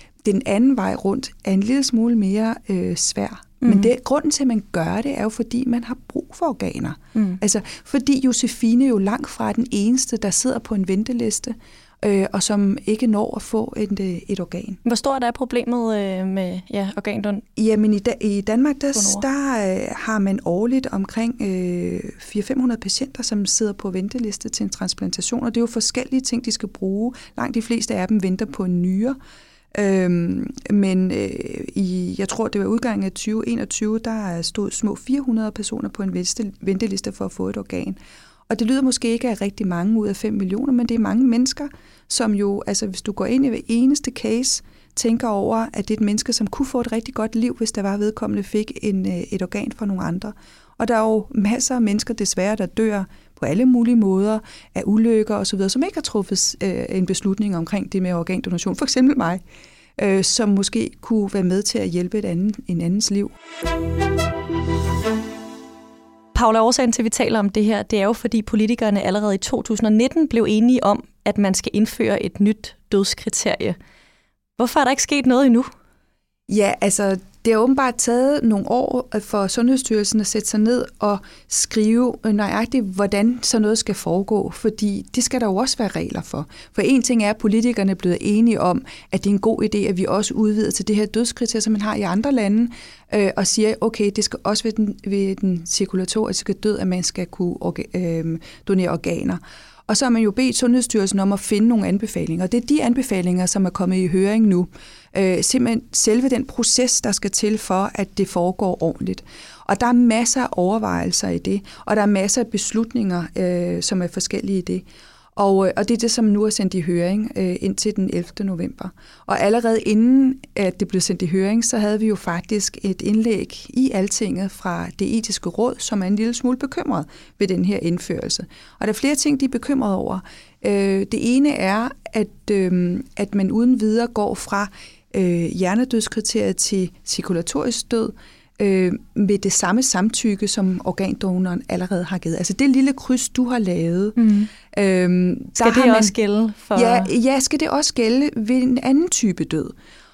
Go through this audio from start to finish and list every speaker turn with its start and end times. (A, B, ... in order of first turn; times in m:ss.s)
0:00.2-0:14.8 A
0:03.6-0:03.9 B
0:07.1-0:07.4 B
0:14.8-0:17.4 B
0:17.6-0:29.2 A
0:18.9-0:19.2 B
0:29.7-0:59.4 A
1:00.0-1:03.3 A
1:06.3-1:13.8 B
1:14.6-1:15.7 B
1:16.5-2:24.2 A
2:24.2-2:24.5 B
2:24.7-2:26.1 A
2:25.6-2:27.1 B
2:26.7-2:29.7 A